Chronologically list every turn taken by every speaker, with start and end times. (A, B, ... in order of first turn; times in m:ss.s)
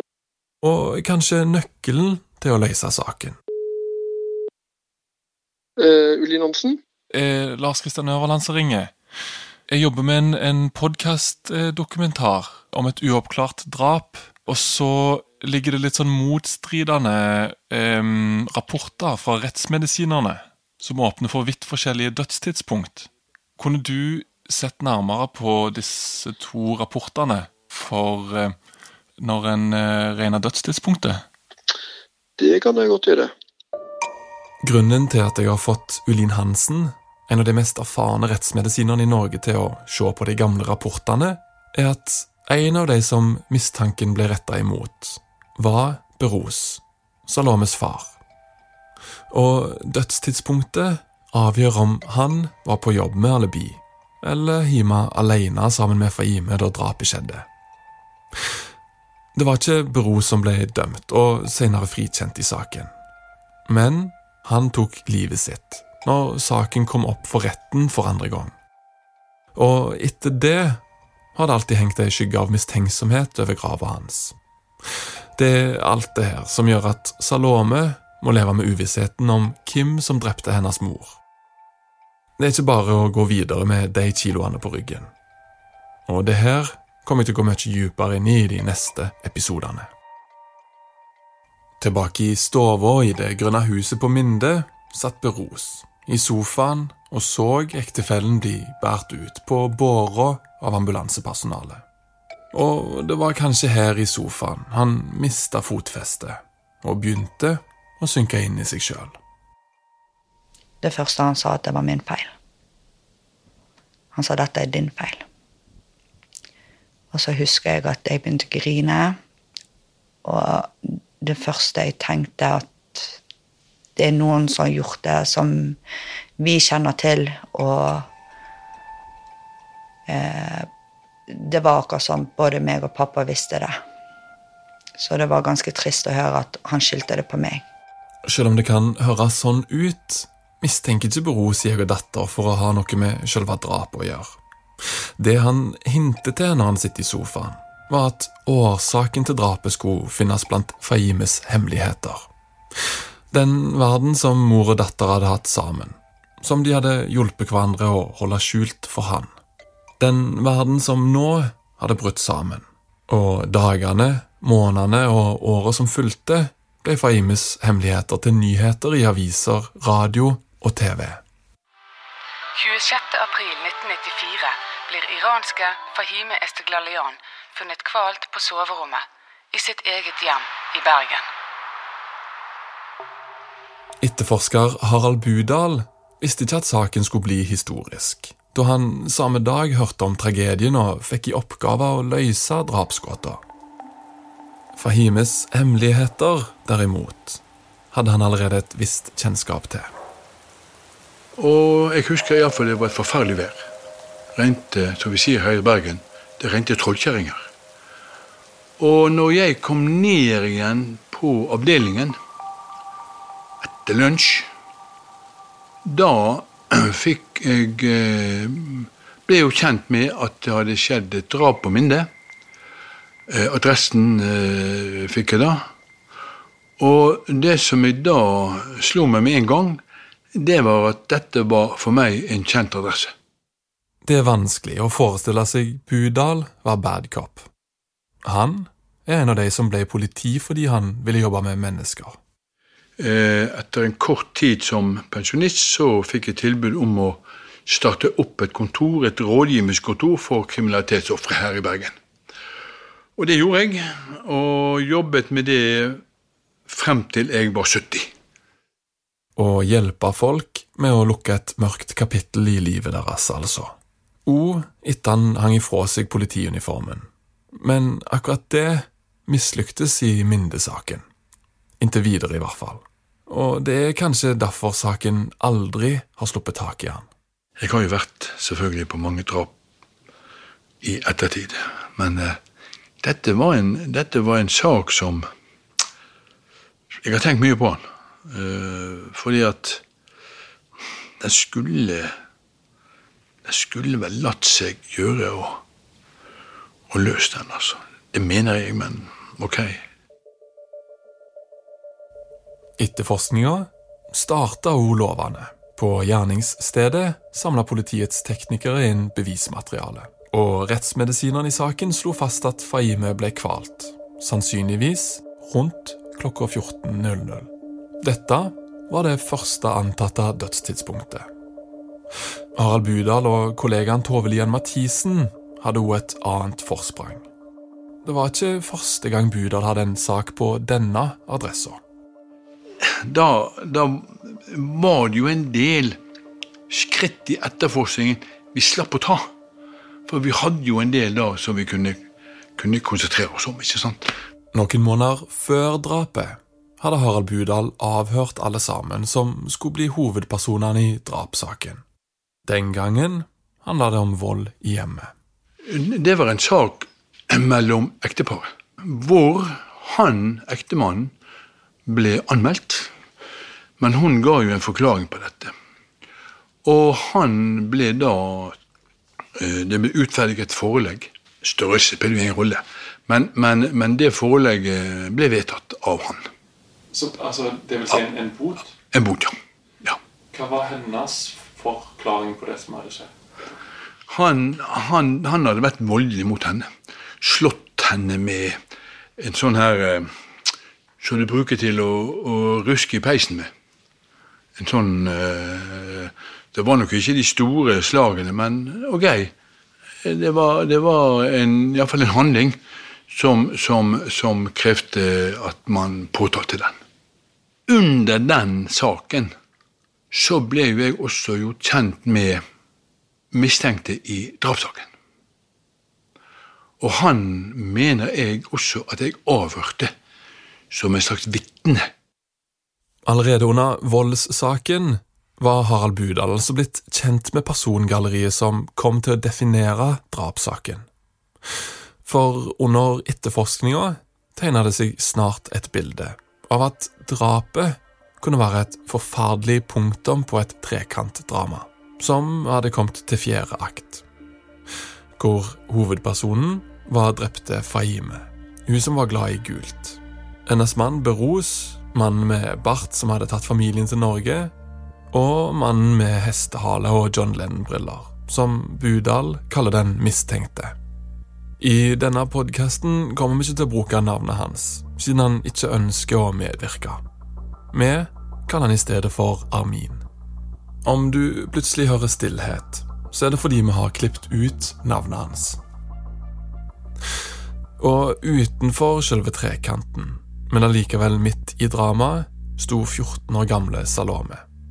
0:00.6-0:03.4 A
0:05.8-0:06.8 B
0:07.1-0:08.9 A
0:09.7-0:28.6 A
0:29.2-0:31.2 A
0:32.4-0:33.3 B
0:34.6-0:48.2 A
0:49.3-0:57.5 A
0:59.4-1:02.9 A
1:03.7-1:08.5 A
1:09.6-1:10.8 A
1:11.4-1:14.4 A
1:15.4-1:21.2 A
1:22.4-1:25.1 A
1:26.1-1:29.9 A
1:31.8-1:41.8 A
1:42.5-1:49.2 A
1:50.8-1:52.3 C
1:54.1-1:55.2 C
1:57.1-1:59.2 C
2:00.2-2:03.2 C
2:04.0-2:05.8 C
2:06.4-2:08.1 C
2:10.1-2:10.7 C
2:11.3-2:13.8 C
2:15.0-2:17.6 C
2:18.2-2:24.4 A
2:25.2-2:32.3 A
2:33.3-2:39.3 A
2:40.0-2:51.2 A
2:52.6-3:01.2 D
3:04.0-3:13.4 A
3:14.8-3:17.4 A
3:17.9-3:19.9 A
3:21.4-3:23.7 E
3:24.4-3:27.5 E
3:28.8-3:32.2 E
3:33.6-3:34.5 E
3:35.8-3:42.1 E
3:43.3-3:45.6 E
3:46.8-3:49.8 E
3:50.4-3:53.1 E
3:54.0-3:57.5 A
3:58.2-4:02.2 A
4:03.0-4:11.9 E
4:13.2-4:16.0 E
4:16.7-4:18.1 E
4:19.4-4:23.8 A
4:24.3-4:31.0 A
4:31.8-4:37.1 A
4:37.6-4:39.5 E
4:40.8-4:42.4 E
4:43.0-4:45.3 E
4:47.0-4:49.8 E
4:51.2-4:52.1 E
4:53.4-4:55.6 E
4:56.9-4:59.8 E
5:02.8-5:17.5 A
5:18.0-5:21.3 A
5:22.6-5:27.2 A
5:28.0-5:31.8 A
5:32.8-5:36.0 E
5:36.7-5:39.3 E
5:40.1-5:42.0 E
5:42.6-5:44.1 E
5:44.5-5:51.8 A
5:52.5-5:55.1 A
5:55.7-6:01.1 E
6:01.9-6:02.9 E
6:03.8-6:05.5 E
6:06.6-6:08.6 E
6:09.4-6:16.2 E
6:16.9-6:18.7 A
6:18.9-6:20.0 E
6:20.3-6:23.1 A
6:24.1-6:26.7 E
6:27.2-6:28.6 E
6:29.2-6:30.1 E
6:31.0-6:33.5 E
6:34.6-6:39.3 E
6:40.0-6:42.6 E
6:43.1-6:46.8 E
6:47.7-6:49.3 E
6:50.1-6:52.4 E
6:53.3-6:54.9 E
6:56.8-6:59.9 E
7:00.7-7:01.9 E
7:03.1-7:10.8 A
7:12.0-7:24.0 A
7:25.2-7:34.5 A
7:35.1-7:40.8 A
7:41.6-7:47.0 A
7:47.7-7:50.0 A
7:50.8-7:55.6 A
7:57.8-8:04.4 A